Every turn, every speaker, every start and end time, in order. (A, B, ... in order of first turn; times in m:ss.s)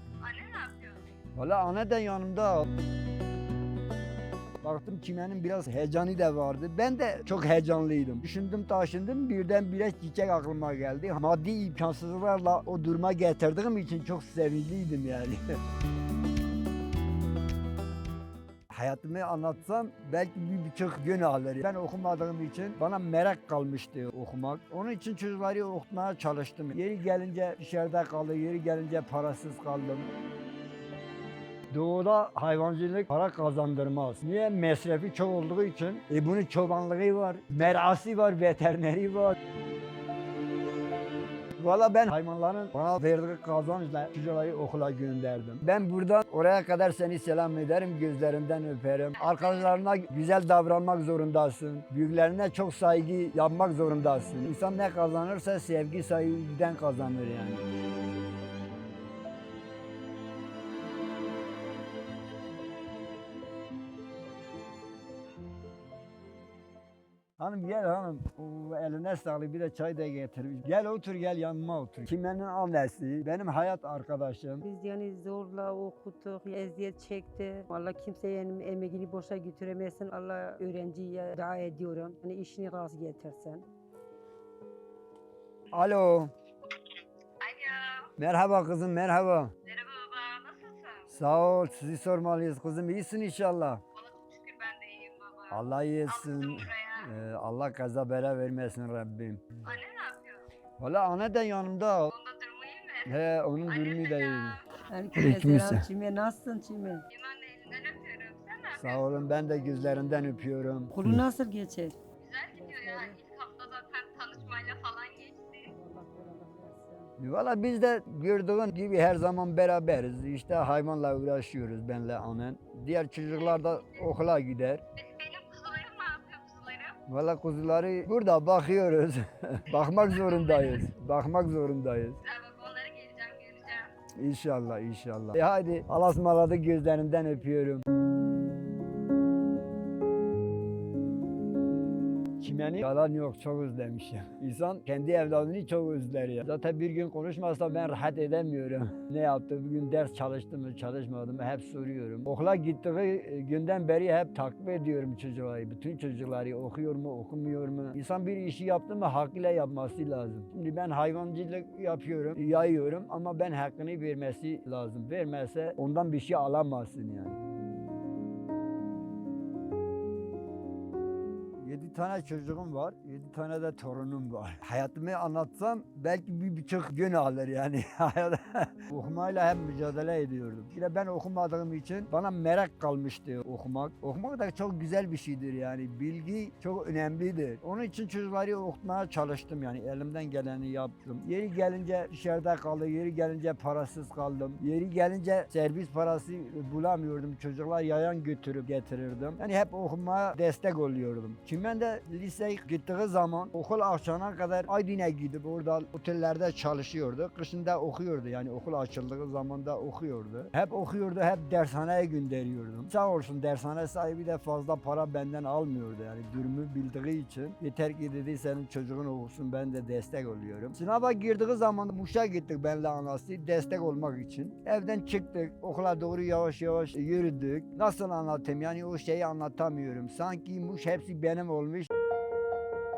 0:00.2-0:01.0 A
0:01.4-0:02.7 B
0:04.6-0:15.5 B
0:18.7-0:30.1 B
0:31.7-0:39.4 B
0:41.6-0:57.6 B
0:49.2-0:49.8 A
1:07.4-1:14.6 B
1:14.6-1:23.6 C
1:25.7-1:26.3 B
1:27.4-1:28.1 A
1:28.2-1:29.5 B
1:29.6-1:31.1 A
1:31.1-1:33.8 B
1:33.9-1:37.1 A
1:35.5-1:39.4 B
1:39.6-1:40.4 A
1:40.8-1:42.1 B
1:42.1-1:43.1 A
1:43.0-1:44.6 B
1:43.6-1:44.8 A
1:44.9-1:47.0 C
1:45.2-1:45.9 B
1:47.1-1:49.4 A
1:48.7-1:51.2 B
1:49.4-1:50.3 C
1:50.9-1:52.0 C
1:52.2-1:55.7 A
1:52.5-1:53.2 C
1:55.7-1:57.1 C
1:57.2-2:04.8 B
2:03.3-2:04.0 A
2:05.0-2:07.0 A
2:07.1-2:12.2 B
2:09.7-2:10.8 A
2:12.2-2:13.9 A
2:14.2-2:17.8 B
2:22.4-2:47.4 B
2:51.6-3:51.9 B